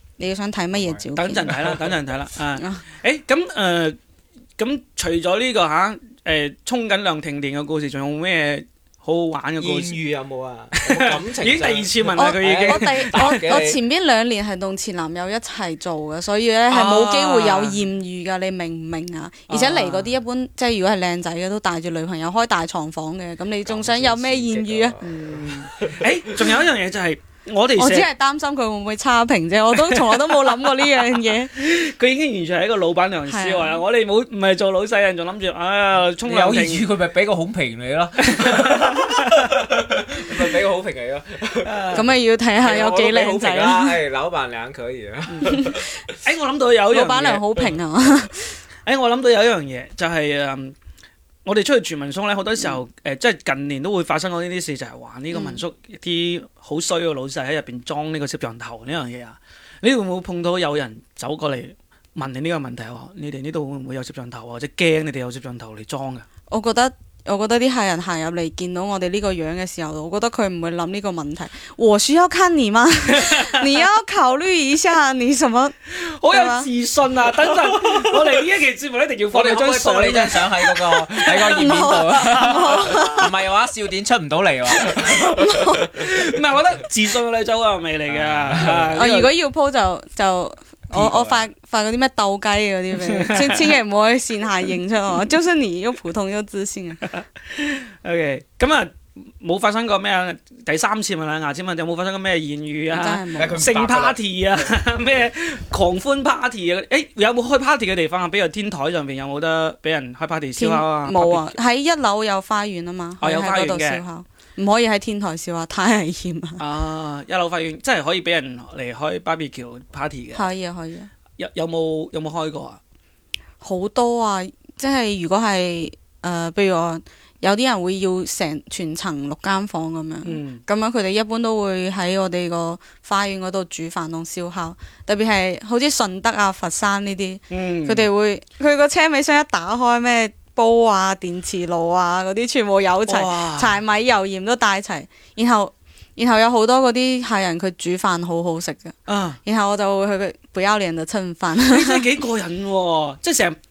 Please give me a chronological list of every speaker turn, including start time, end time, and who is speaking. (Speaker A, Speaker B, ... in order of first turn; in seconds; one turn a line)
Speaker A: 0.2-1.6
Speaker B: 0.7-1.9
Speaker C: 1.2-4.0
Speaker A: 2.6-2.8
Speaker C: 4.6-10.0
Speaker B: 9.6-13.8
Speaker C: 10.7-13.6
Speaker A: 12.2-25.0
Speaker C: 16.7-17.8
Speaker C: 19.5-20.1
Speaker B: 23.6-26.6
Speaker C: 25.0-28.1
Speaker A: 27.8-31.5
Speaker C: 29.7-36.9
Speaker A: 33.3-33.8
Speaker B: 36.2-41.7
Speaker C: 38.2-39.5
Speaker C: 41.6-42.1
Speaker A: 41.9-44.0
Speaker B: 42.6-46.1
Speaker A: 45.4-45.8
Speaker C: 46.2-47.7
Speaker A: 46.9-48.4
Speaker C: 48.8-50.7
Speaker C: 51.4-66.2
Speaker A: 55.3-55.6
Speaker A: 66.5-75.8
Speaker C: 73.1-73.8
Speaker C: 75.9-81.6
Speaker A: 76.3-76.7
Speaker B: 77.5-78.3
Speaker B: 79.3-86.2
Speaker A: 81.2-83.3
Speaker A: 85.3-85.8
Speaker C: 86.0-89.3
Speaker B: 88.1-89.0
Speaker A: 88.9-97.0
Speaker B: 90.9-91.4
Speaker C: 93.0-93.8
Speaker C: 97.1-111.5
Speaker A: 102.9-103.7
Speaker B: 103.3-104.8
Speaker A: 110.6-116.6
Speaker C: 113.2-114.0
Speaker C: 116.6-120.5
Speaker A: 120.3-121.1
Speaker C: 121.4-122.8
Speaker A: 123.6-152.0
Speaker C: 130.2-130.6
Speaker C: 137.5-138.1
Speaker C: 143.1-143.8
Speaker C: 149.1-149.4
Speaker C: 151.6-153.6